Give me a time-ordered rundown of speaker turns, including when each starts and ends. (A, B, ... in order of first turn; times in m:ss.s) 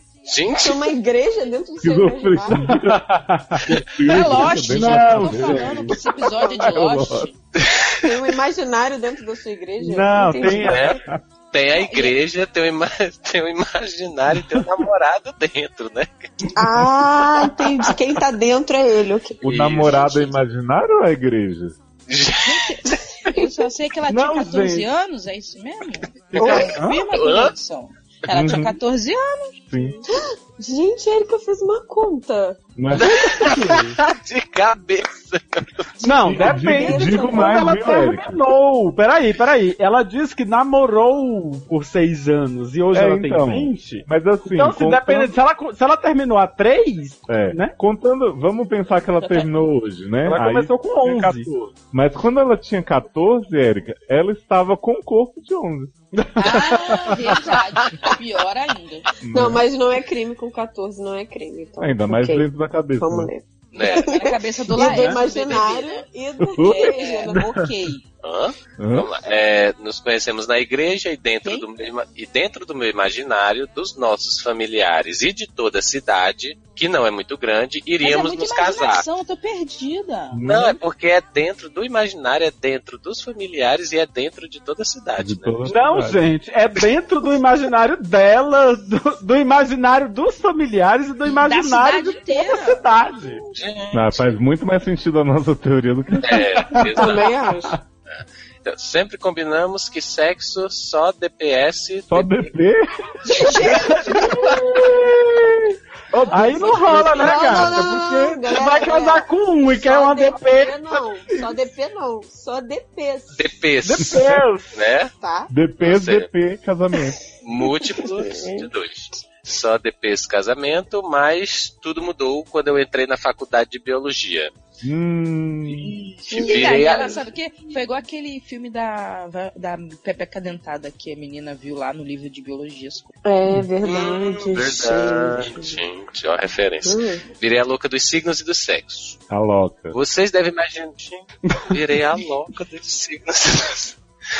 0:00.2-0:00.9 A
0:00.6-0:02.7 B
0:01.8-0:03.0 C
0:02.5-0:03.8 D
0:03.6-0:07.3 C
0:04.0-0:07.3 E
0:04.7-0:05.9 D
0:07.6-0:07.9 A
0:08.0-0:10.9 B
0:09.8-0:11.2 D
0:10.6-0:11.0 A
0:11.5-0:16.3 A
0:11.7-0:12.2 E
0:16.5-0:19.4 B
0:19.4-0:21.8 C
0:19.4-0:20.3 A
0:22.1-0:23.0 A
0:22.4-0:29.5 E
0:24.1-0:24.8 D
0:26.3-0:27.0 D
0:27.1-0:27.5 A
0:28.3-0:28.8 C
0:29.7-0:30.0 C
0:30.1-0:32.6 B
0:32.8-0:33.5 C
0:32.9-0:35.9 A
0:33.1-0:34.0 D
0:36.0-0:47.7 D
0:36.0-0:38.0 B
0:36.2-0:38.4 C
0:42.9-0:45.3 C
0:47.3-0:55.9 C
0:49.2-0:49.5 E
0:50.2-0:51.5 D
0:56.2-0:57.3 D
0:56.4-0:59.1 E
0:59.2-0:59.6 C
0:59.3-1:02.5 B
1:01.8-1:03.3 C
1:03.0-1:07.4 B
1:03.7-1:06.0 E
1:03.7-1:04.2 A
1:06.4-1:07.0 C
1:06.6-1:08.0 E
1:08.2-1:19.0 A
1:08.8-1:09.1 C
1:18.0-1:20.4 E
1:20.3-1:20.8 C
1:20.4-1:25.6 A
1:25.2-1:26.3 C
1:25.6-1:33.4 D
1:31.2-1:32.8 E
1:33.5-1:34.3 A
1:33.9-1:36.8 C
1:36.2-1:37.3 A
1:36.7-1:37.0 D
1:36.9-1:37.8 B
1:38.6-1:42.5 A
1:42.1-1:43.6 C
1:43.2-1:44.4 E
1:43.7-1:51.4 D
1:46.2-1:47.7 C
1:46.3-1:47.4 E
1:47.1-1:53.5 B
1:53.4-1:55.1 A
1:53.8-1:54.8 D
1:55.2-1:55.5 B
1:55.5-1:57.2 C
1:55.8-1:56.3 A
1:57.4-2:04.5 A
1:57.8-1:58.7 B
2:04.8-2:06.1 C
2:06.3-2:13.1 E
2:06.3-2:07.2 A
2:06.3-2:06.8 B
2:13.2-2:15.8 B
2:13.8-2:19.2 A
2:16.8-2:17.2 B
2:19.3-2:20.0 C
2:19.9-2:24.0 A
2:21.5-2:21.8 D